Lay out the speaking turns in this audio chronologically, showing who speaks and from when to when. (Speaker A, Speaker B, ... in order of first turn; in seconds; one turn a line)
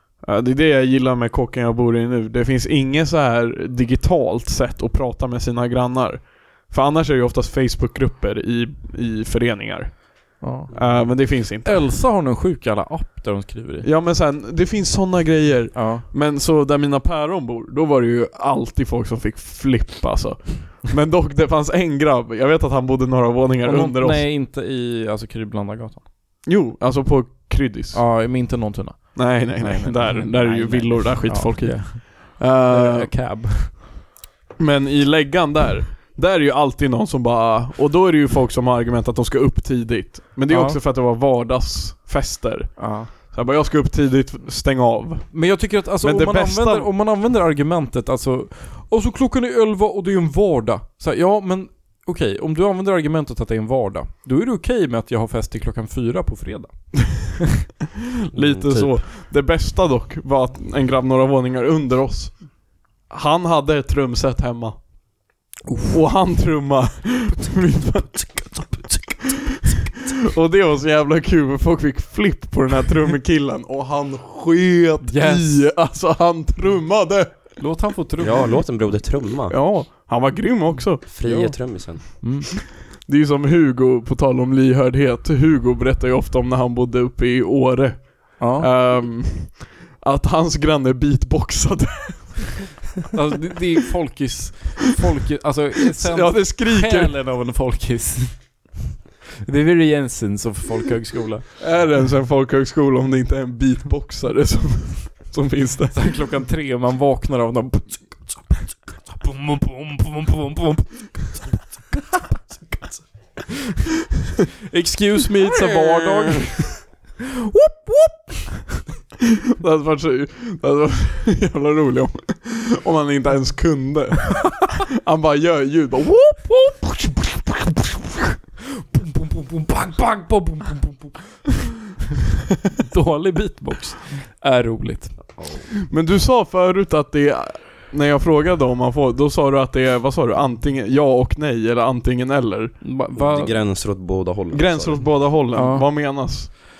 Speaker A: 0.2-11.8
Speaker B: 10.4-13.9
Speaker C: 10.7-11.1
Speaker A: 13.8-24.3
Speaker B: 15.7-16.0
Speaker B: 23.6-26.0
Speaker A: 26.4-28.0
Speaker B: 27.9-33.7
Speaker A: 29.1-33.1
Speaker A: 34.6-46.9
Speaker B: 40.5-40.8
Speaker B: 42.8-43.1
Speaker B: 45.3-57.3
Speaker C: 58.3-59.0
Speaker A: 58.3-65.1
Speaker B: 65.7-65.9
Speaker A: 65.9-69.1
Speaker A: 70.3-77.6
Speaker B: 75.0-75.6
Speaker B: 77.6-78.5
Speaker C: 78.2-79.6
Speaker A: 79.5-81.0
Speaker C: 81.1-82.2
Speaker B: 81.2-82.5
Speaker A: 83.0-92.6
Speaker B: 88.4-88.7
Speaker B: 93.1-98.7
Speaker A: 96.0-97.2
Speaker B: 99.4-101.5
Speaker A: 101.6-106.0
Speaker B: 105.9-111.6
Speaker B: 114.7-116.7
Speaker B: 117.5-118.4
Speaker A: 119.6-126.8
Speaker B: 128.9-131.5
Speaker B: 132.8-135.3
Speaker C: 135.2-135.7
Speaker A: 135.9-142.8
Speaker B: 142.8-143.6
Speaker C: 143.1-145.1
Speaker A: 144.5-146.5
Speaker B: 145.5-146.5